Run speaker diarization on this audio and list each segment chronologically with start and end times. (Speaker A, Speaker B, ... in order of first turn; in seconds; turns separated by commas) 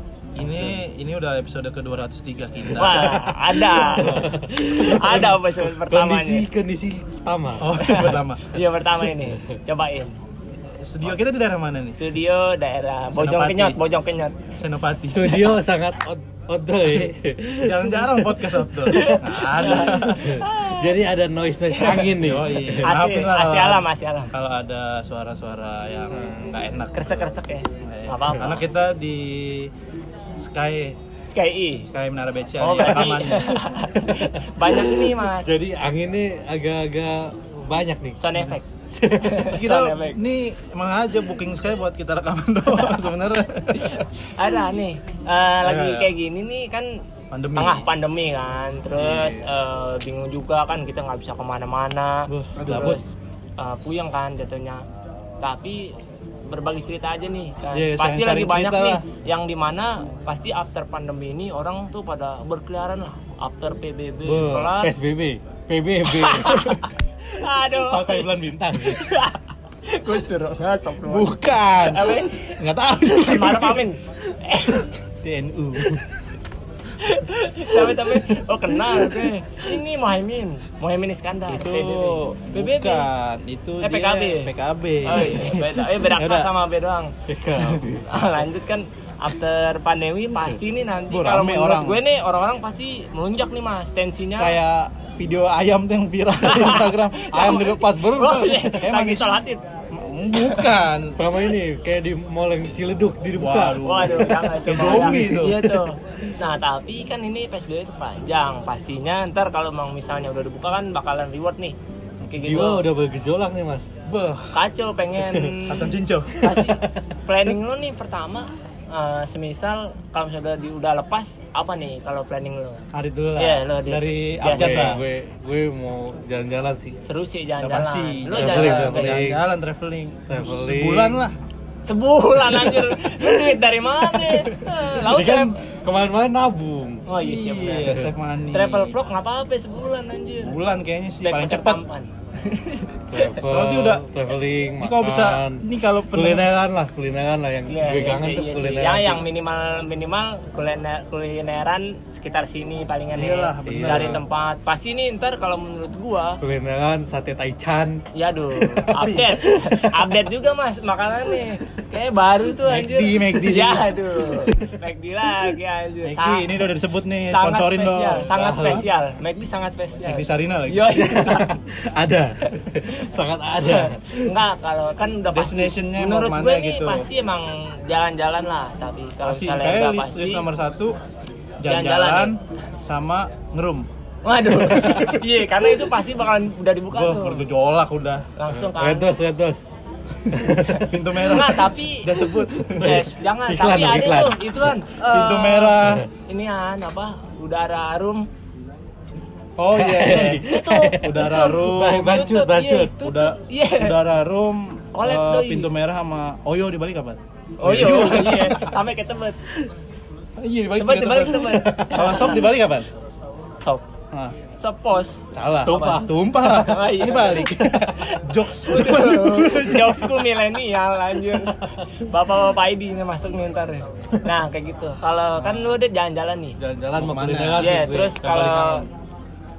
Speaker A: 0.3-4.3, Speaker B: 2.7-6.5, Speaker C: 3.8-8.1, Speaker A: 7.6-8.5, Speaker B: 7.7-10.2, Speaker A: 10.8-12.0, Speaker B: 11.9-14.5, Speaker A: 13.1-13.8, Speaker A: 14.6-15.5, Speaker C: 15.1-22.9, Speaker A: 17.6-20.4, Speaker B: 18.9-21.0, Speaker B: 21.7-22.1, Speaker A: 22.1-27.3, Speaker B: 22.8-24.3, Speaker B: 26.9-28.6, Speaker A: 27.8-29.7, Speaker A: 30.4-31.0, Speaker B: 31.3-31.9, Speaker A: 31.9-33.7, Speaker B: 32.6-35.5, Speaker C: 34.7-39.6, Speaker B: 38.2-40.2, Speaker A: 39.5-44.1, Speaker B: 43.7-46.9, Speaker A: 45.6-46.1, Speaker A: 47.3-47.9, Speaker B: 47.5-54.8, Speaker C: 49.0-49.4, Speaker A: 52.3-53.0, Speaker B: 55.4-65.0, Speaker A: 57.7-59.0, Speaker A: 64.2-64.8, Speaker C: 64.7-66.9, Speaker B: 66.1-74.9, Speaker C: 67.7-69.1, Speaker A: 71.0-73.9, Speaker A: 75.2-76.0, Speaker B: 77.0-83.1, Speaker C: 77.8-78.4, Speaker C: 78.9-79.3, Speaker A: 81.5-86.5, Speaker B: 83.8-84.5, Speaker B: 85.0-87.1, Speaker C: 85.1-85.8, Speaker C: 87.3-88.1, Speaker B: 88.0-94.6, Speaker A: 91.1-92.0, Speaker A: 94.4-101.2, Speaker B: 96.4-99.6, Speaker B: 100.3-100.7, Speaker C: 101.2-105.4, Speaker A: 103.3-105.8, Speaker B: 103.8-111.8, Speaker B: 112.3-112.9, Speaker C: 112.4-113.9, Speaker A: 114.0-114.6, Speaker B: 114.5-122.9, Speaker C: 115.2-115.5, Speaker A: 115.7-116.5, Speaker C: 116.4-117.0, Speaker A: 122.9-125.0, Speaker B: 123.4-125.0, Speaker C: 124.5-127.0, Speaker B: 127.0-129.2, Speaker A: 127.6-131.4, Speaker C: 128.3-129.4, Speaker C: 130.3-131.2, Speaker B: 131.8-135.7, Speaker C: 132.5-133.6, Speaker A: 134.3-134.9, Speaker C: 134.9-137.0, Speaker B: 137.1-140.6, Speaker A: 137.2-138.9, Speaker A: 140.4-141.8, Speaker B: 141.2-143.4, Speaker C: 143.1-149.2, Speaker A: 143.4-144.0, Speaker A: 144.8-146.5, Speaker B: 147.7-156.4, Speaker A: 153.1-154.2, Speaker C: 153.6-154.2, Speaker C: 156.4-158.0, Speaker B: 158.1-166.6, Speaker C: 158.6-160.2, Speaker A: 158.9-159.4, Speaker A: 162.6-163.9, Speaker C: 164.4-164.7, Speaker A: 166.1-168.9, Speaker B: 167.2-171.5, Speaker C: 168.2-168.9, Speaker A: 170.1-171.2, Speaker C: 170.9-174.3, Speaker B: 173.6-180.5, Speaker A: 175.3-177.1, Speaker A: 179.2-180.9, Speaker A: 181.6-183.9, Speaker B: 181.6-182.4, Speaker B: 184.2-187.5, Speaker A: 184.6-185.2, Speaker A: 186.9-188.3, Speaker B: 188.4-189.1, Speaker C: 188.5-189.6, Speaker C: 190.2-190.9, Speaker B: 190.5-198.3, Speaker A: 190.8-193.0, Speaker C: 192.3-194.4, Speaker A: 195.0-196.1, Speaker A: 199.6-200.4, Speaker C: 199.8-202.9, Speaker B: 200.4-204.0, Speaker A: 201.0-202.4, Speaker A: 203.0-208.8, Speaker B: 204.9-205.7, Speaker B: 207.6-209.4, Speaker C: 207.7-208.1, Speaker A: 210.4-212.9, Speaker B: 210.8-212.4, Speaker C: 211.4-212.4, Speaker B: 213.6-213.9, Speaker B: 214.5-226.6, Speaker A: 215.3-220.2, Speaker C: 215.6-216.2, Speaker C: 226.6-228.9, Speaker A: 227.0-227.7, Speaker B: 227.6-228.9